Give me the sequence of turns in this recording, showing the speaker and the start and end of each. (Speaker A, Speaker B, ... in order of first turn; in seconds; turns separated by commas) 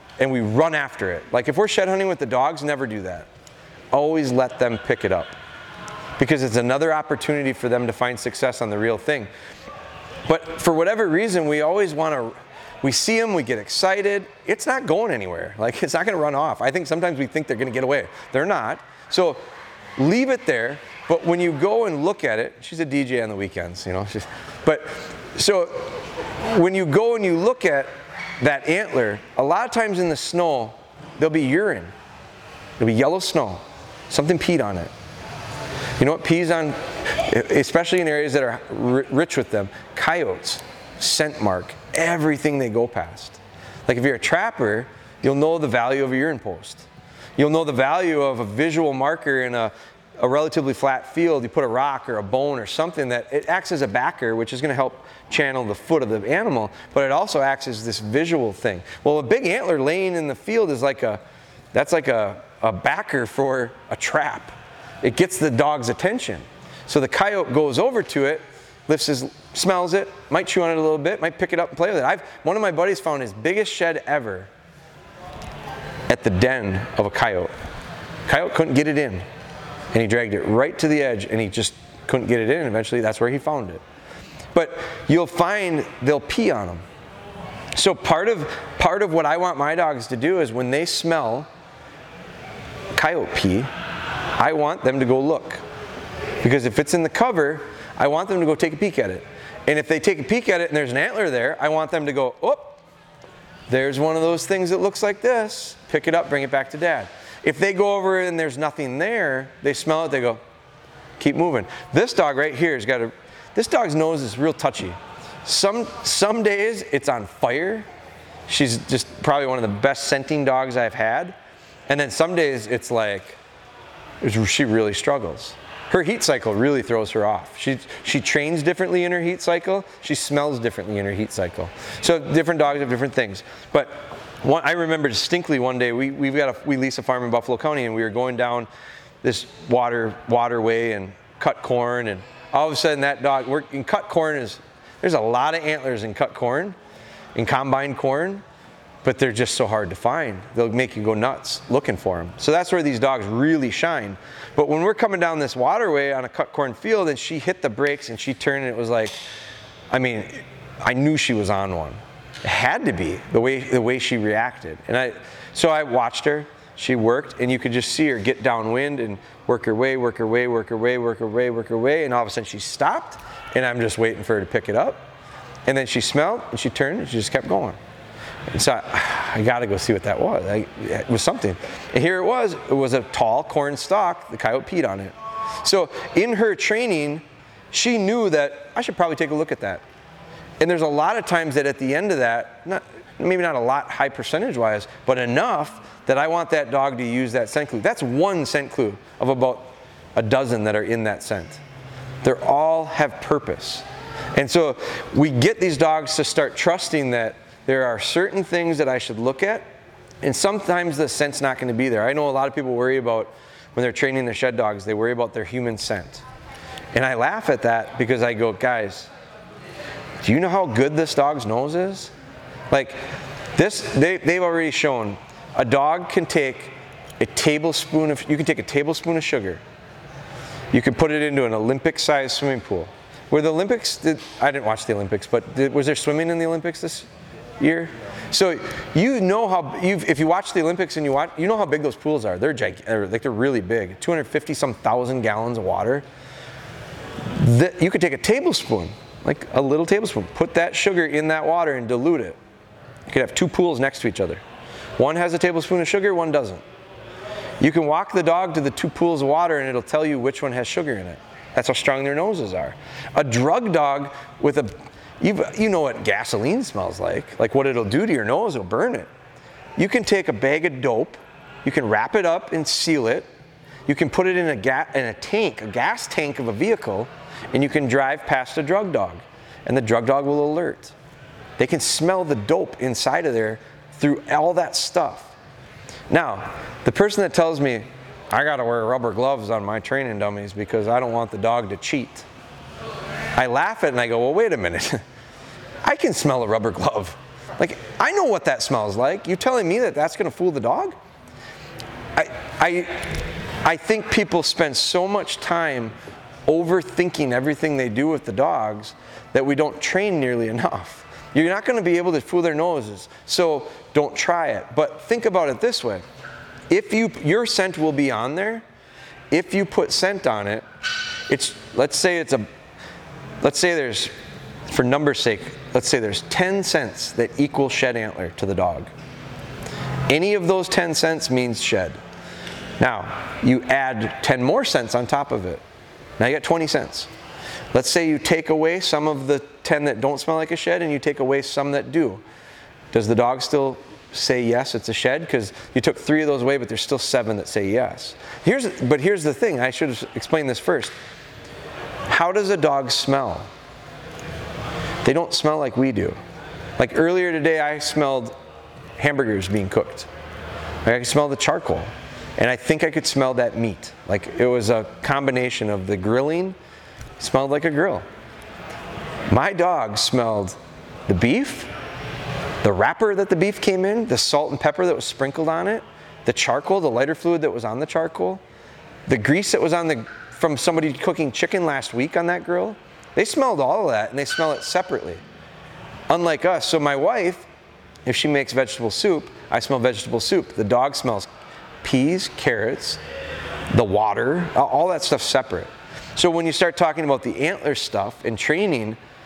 Speaker A: 0.2-3.3, Speaker A: 3.9-5.3, Speaker A: 6.2-9.3, Speaker A: 10.2-19.4, Speaker A: 20.0-31.9, Speaker A: 32.8-34.9, Speaker A: 36.0-61.2, Speaker A: 61.7-74.5, Speaker A: 76.1-77.5, Speaker A: 78.3-79.2, Speaker A: 79.9-83.8, Speaker A: 84.5-86.8, Speaker A: 87.8-91.5, Speaker A: 92.9-93.7, Speaker A: 94.4-95.6, Speaker A: 96.4-102.8, Speaker A: 103.7-110.4, Speaker A: 111.2-117.9, Speaker A: 118.5-121.3, Speaker A: 121.9-123.4, Speaker A: 124.2-138.7, Speaker A: 139.2-146.8, Speaker A: 147.3-148.4, Speaker A: 149.0-159.2, Speaker A: 159.9-175.1, Speaker A: 175.7-177.8, Speaker A: 178.5-189.8, Speaker A: 190.6-201.6, Speaker A: 202.2-209.6, Speaker A: 210.2-216.2, Speaker A: 216.9-219.1, Speaker A: 220.2-222.1, Speaker A: 222.7-223.0, Speaker A: 223.5-229.6, Speaker A: 230.7-237.1, Speaker A: 237.6-246.0, Speaker A: 247.3-252.4, Speaker A: 253.1-254.4, Speaker A: 255.0-256.6, Speaker A: 257.6-269.1, Speaker A: 269.8-273.3, Speaker A: 273.9-280.9, Speaker A: 281.6-285.3, Speaker A: 286.1-292.2, Speaker A: 293.4-295.0, Speaker A: 295.8-301.0, Speaker A: 302.1-305.9, Speaker A: 306.5-316.0, Speaker A: 316.7-318.6, Speaker A: 319.3-320.6, Speaker A: 321.3-322.5, Speaker A: 323.4-324.1, Speaker A: 324.7-328.9, Speaker A: 330.1-332.0, Speaker A: 332.8-335.6, Speaker A: 336.2-337.1, Speaker A: 337.7-342.2, Speaker A: 342.9-350.9, Speaker A: 352.1-353.5, Speaker A: 355.0-356.2, Speaker A: 356.8-358.3, Speaker A: 359.0-360.1, Speaker A: 360.9-366.6, Speaker A: 367.2-368.0, Speaker A: 369.3-371.7, Speaker A: 372.6-378.4, Speaker A: 379.1-385.2, Speaker A: 386.1-387.5, Speaker A: 388.0-391.3, Speaker A: 391.8-393.0, Speaker A: 393.7-399.0